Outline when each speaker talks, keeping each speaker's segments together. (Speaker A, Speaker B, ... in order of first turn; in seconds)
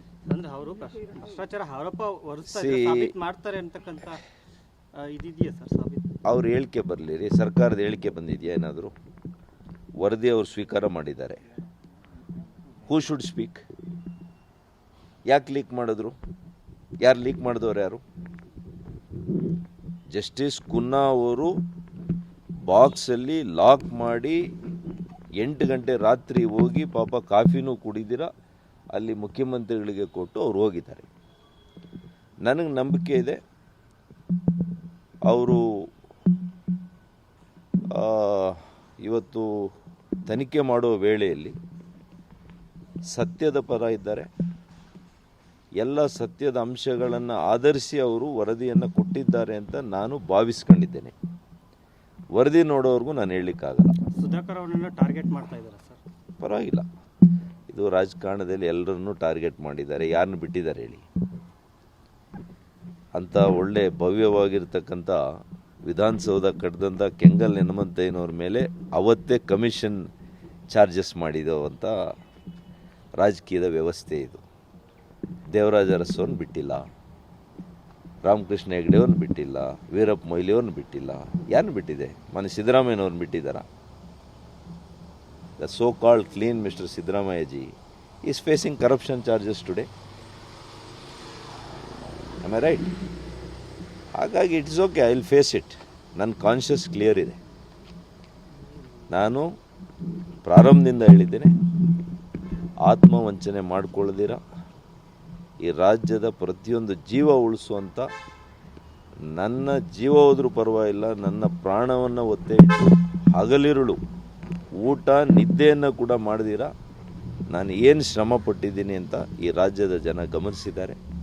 Speaker A: 0.2-4.2, 4.9-6.1, 54.1-56.0
Speaker B: 2.5-3.1, 6.2-8.9, 10.0-11.4, 12.8-13.6, 15.3-16.1, 17.0-18.0, 20.1-21.5, 22.6-24.4, 25.4-28.3, 28.9-31.1, 32.4-33.4, 35.3-35.9, 37.9-39.7, 40.2-41.5, 43.1-44.3, 45.8-51.1, 52.3-54.0, 56.4-56.9, 57.7-61.0, 63.1-65.2, 65.8-70.1, 70.7-71.9, 73.2-74.4, 75.5-76.8, 78.2-83.6, 85.6-87.7, 88.2-89.9, 92.4-92.9, 94.2-97.4, 99.1-99.5, 100.5-101.5, 102.8-104.4, 105.7-108.1, 109.3-114.0, 114.8-116.7, 117.5-121.0